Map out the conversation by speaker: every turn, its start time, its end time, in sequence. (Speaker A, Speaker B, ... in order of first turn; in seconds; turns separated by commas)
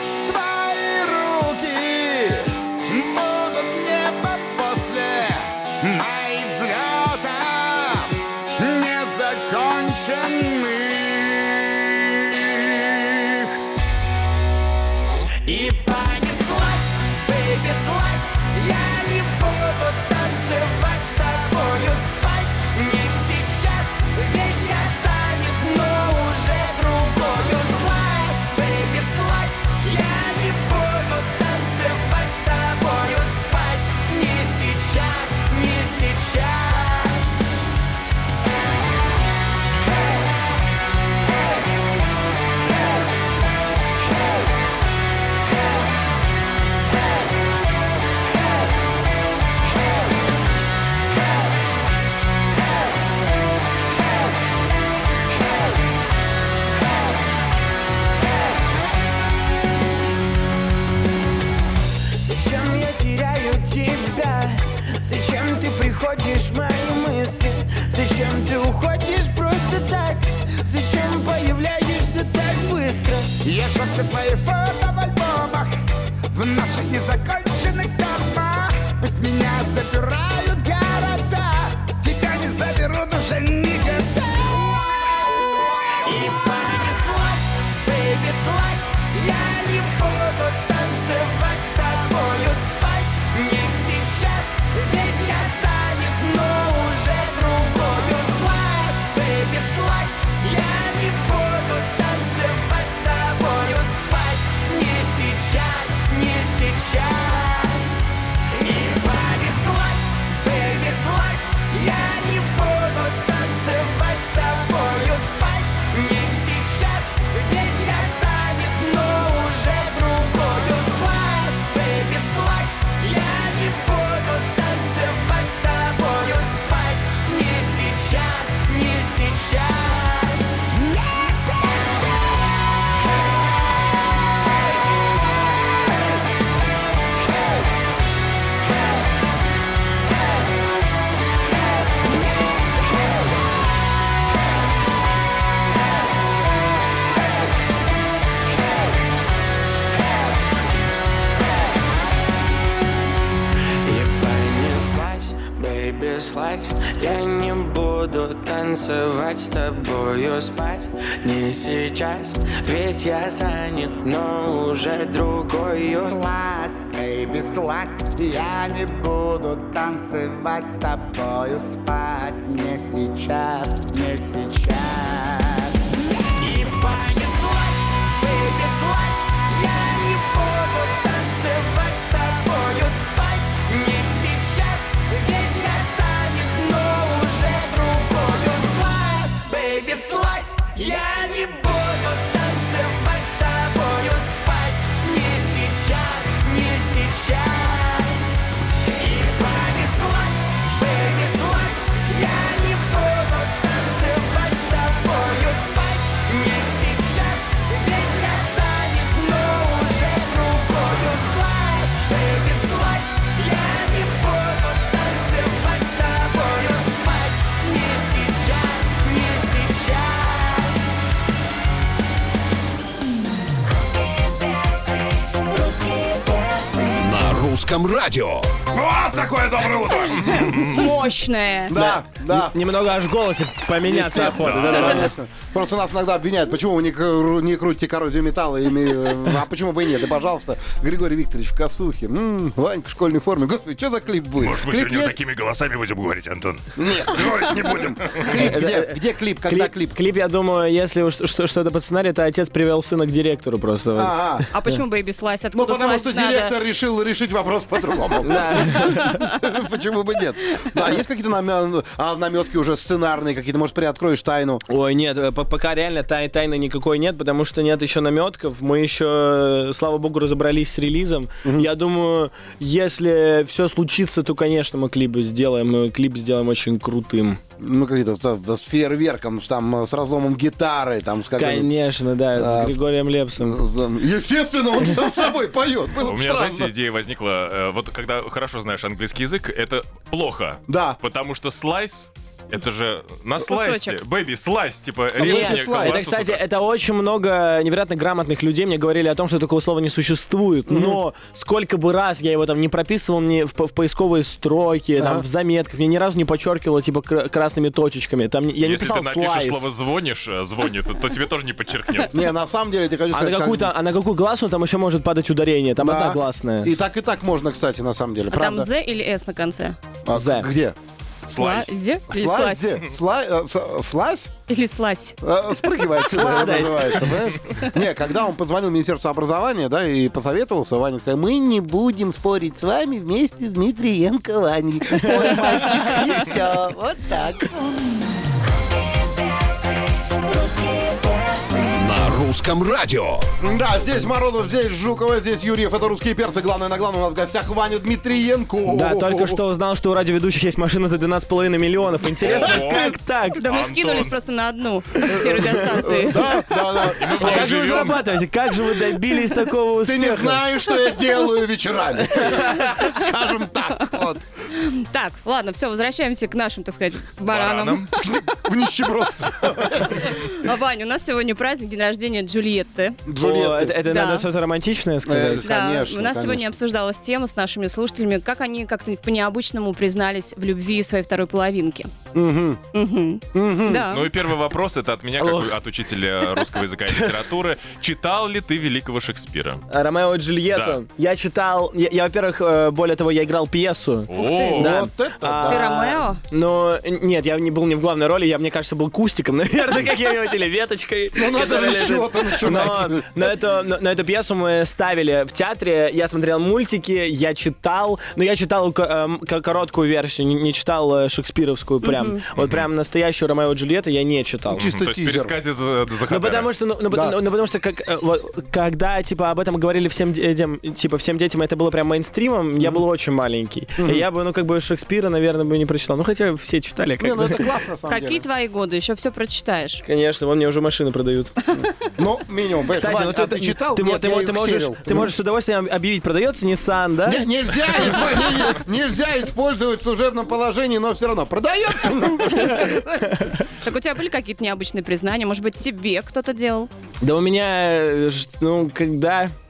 Speaker A: 0.3-13.5, Speaker B: 15.4-37.4, Speaker B: 62.2-73.3, Speaker A: 73.4-75.7, Speaker A: 76.3-84.7, Speaker B: 86.1-108.0, Speaker B: 108.5-130.6, Speaker B: 153.8-166.2, Speaker A: 166.0-175.7, Speaker B: 176.4-198.3, Speaker B: 198.9-220.9, Speaker C: 226.9-228.6, Speaker D: 228.7-230.5, Speaker E: 230.2-230.8, Speaker F: 230.4-231.8, Speaker D: 231.7-232.6, Speaker G: 231.8-235.1, Speaker D: 233.8-245.2, Speaker E: 234.2-235.0, Speaker E: 244.4-246.7, Speaker D: 246.8-250.0, Speaker G: 248.3-254.2, Speaker D: 253.9-254.5, Speaker F: 254.5-256.5, Speaker D: 255.5-264.6, Speaker G: 258.2-259.2, Speaker G: 264.7-277.4, Speaker D: 277.6-281.7, Speaker G: 281.4-283.6, Speaker D: 282.3-282.8, Speaker D: 283.4-286.7, Speaker E: 286.0-296.4, Speaker D: 290.7-291.0, Speaker F: 293.4-294.0, Speaker D: 295.2-296.1, Speaker G: 295.2-309.7, Speaker D: 300.7-301.0, Speaker D: 305.0-305.2, Speaker E: 308.6-312.1, Speaker D: 312.1-313.7, Speaker G: 313.1-316.8, Speaker D: 315.8-318.7, Speaker F: 318.3-319.8, Speaker D: 320.1-320.8, Speaker G: 320.1-320.5, Speaker E: 321.3-321.8, Speaker F: 321.3-322.8, Speaker D: 322.1-324.3, Speaker F: 324.5-325.2, Speaker D: 325.2-337.6, Speaker G: 326.0-327.3, Speaker G: 334.9-335.9, Speaker C: 341.7-343.3, Speaker D: 343.4-349.4, Speaker G: 348.7-353.4, Speaker E: 352.2-354.2, Speaker D: 352.2-352.9, Speaker F: 353.4-356.3, Speaker D: 355.1-357.5, Speaker E: 356.9-358.2, Speaker G: 357.2-360.4, Speaker D: 359.8-364.2, Speaker G: 362.2-362.6, Speaker F: 364.5-367.9, Speaker E: 367.3-367.9, Speaker D: 367.9-370.2, Speaker F: 370.1-373.0, Speaker D: 373.1-373.8, Speaker G: 373.2-375.5, Speaker F: 373.8-374.3, Speaker D: 375.1-376.5, Speaker F: 375.4-381.9, Speaker D: 382.1-382.6, Speaker F: 382.7-384.1, Speaker D: 383.3-383.9, Speaker E: 383.9-389.6, Speaker G: 385.2-385.5, Speaker G: 389.7-414.7, Speaker E: 390.5-390.8, Speaker E: 394.1-394.8, Speaker F: 394.2-394.6, Speaker D: 394.6-396.0, Speaker F: 395.4-396.2, Speaker D: 401.1-403.3, Speaker F: 411.8-412.2, Speaker E: 412.4-412.6, Speaker D: 414.5-415.3, Speaker E: 414.5-416.5, Speaker G: 416.1-427.5, Speaker D: 416.9-417.2, Speaker D: 423.8-424.1, Speaker D: 427.0-428.2, Speaker F: 427.9-429.8, Speaker G: 429.8-431.3, Speaker D: 432.0-435.1, Speaker G: 432.7-437.2, Speaker D: 437.0-443.3, Speaker F: 443.6-446.7, Speaker G: 447.0-449.3